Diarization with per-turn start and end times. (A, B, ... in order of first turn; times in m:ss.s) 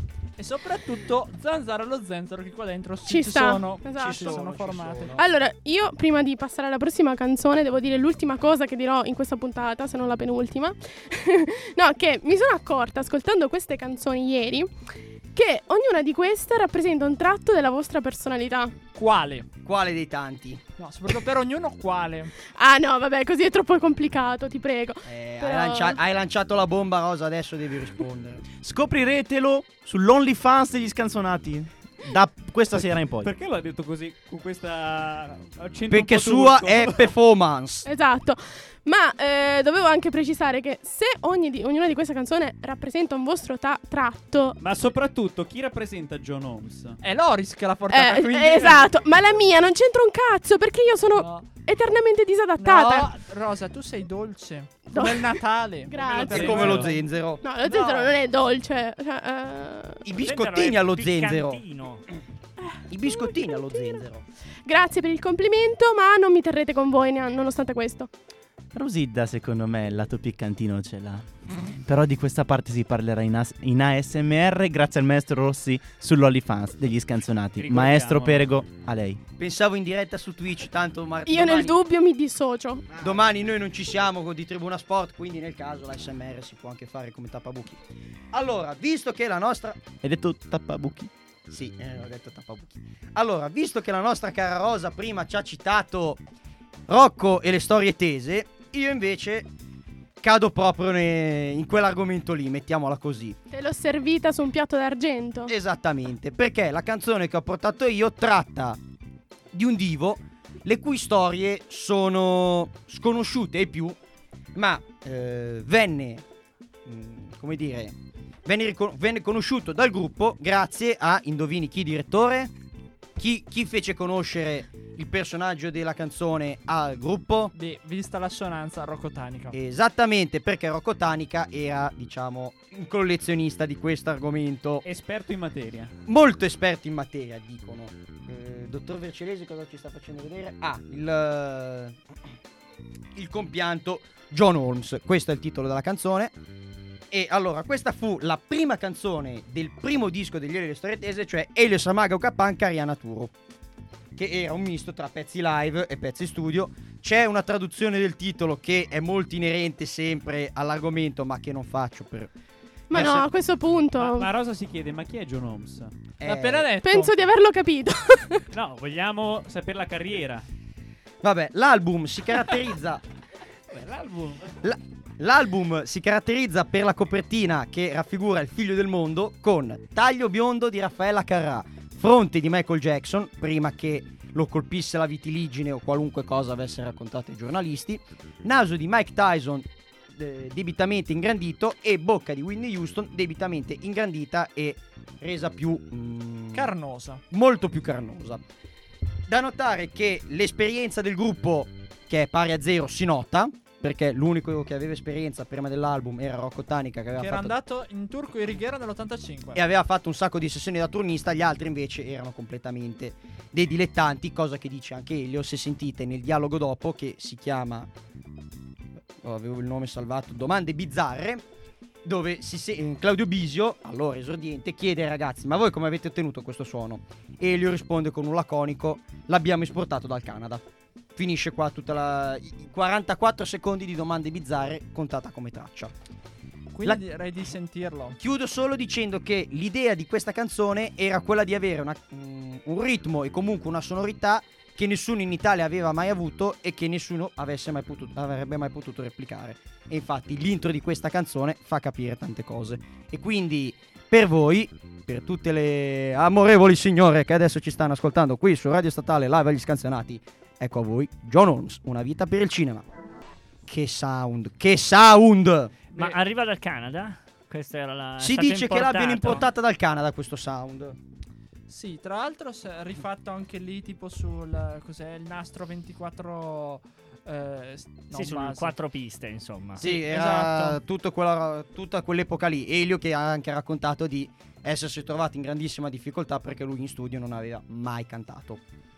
0:00.4-0:05.2 A
0:03.1-0:04.4 B
0:04.0-0:05.2 C
0:05.1-0:14.7 B
0:15.3-0:18.8 B
0:19.0-0:19.5 A
0:19.6-0:20.6 C
0:20.8-0:22.3 A
0:22.5-0:26.0 B
0:25.1-0:28.4 C
0:28.6-0:33.3 D
0:33.2-0:37.1 E
0:35.9-0:37.9 C
0:37.9-0:44.6 B
0:44.6-0:47.0 E
0:47.0-0:48.9 A
0:47.9-0:53.1 B
0:51.2-0:51.6 A
0:52.6-0:57.0 A
0:54.9-0:56.8 B
0:56.1-0:56.9 E
0:56.3-0:57.4 C
0:57.4-1:00.1 B
0:57.6-0:58.1 A
1:00.0-1:01.6 C
1:00.2-1:02.0 F
1:02.7-1:04.0 B
1:02.9-1:04.2 C
1:04.7-1:08.1 B
1:08.7-1:19.2 D
1:17.6-1:18.5 E
1:19.4-1:21.8 C
1:21.3-1:22.9 B
1:23.0-1:29.8 C
1:30.0-1:31.1 D
1:31.5-1:36.2 C
1:36.9-1:39.5 C
1:40.2-1:43.4 C
1:43.5-1:45.5 B
1:45.5-1:48.8 C
1:49.5-1:54.0 C
1:54.6-1:56.2 C
1:56.9-1:57.9 C
1:58.4-2:02.5 C
2:03.2-2:07.5 C
2:07.5-2:09.5 A
2:09.5-2:14.8 C
2:14.8-2:15.9 E
2:16.1-2:22.0 C
2:23.2-2:26.4 C
2:27.1-2:33.3 C
2:34.2-2:42.3 C
2:42.9-2:44.3 B
2:42.9-2:43.3 C
2:44.0-2:45.9 E
2:46.2-2:46.7 C
2:46.2-2:47.2 A
2:46.8-2:48.5 B
2:48.5-2:50.5 E
2:51.2-2:53.0 C
2:53.7-2:54.5 E
2:54.6-3:16.7 C
3:16.5-3:17.2 A
3:17.3-3:18.4 C
3:19.3-3:27.5 C
3:27.2-3:29.6 A
3:29.6-3:37.9 C
3:39.2-3:41.4 C
3:42.0-3:50.6 C
3:51.2-3:55.9 C
3:56.7-3:58.2 A
3:58.2-4:22.8 C
4:23.7-4:25.8 C
4:25.9-4:29.5 F
4:28.2-4:31.0 C
4:31.7-4:38.8 A
4:38.1-4:39.8 F
4:39.8-4:40.8 A
4:39.8-4:48.6 C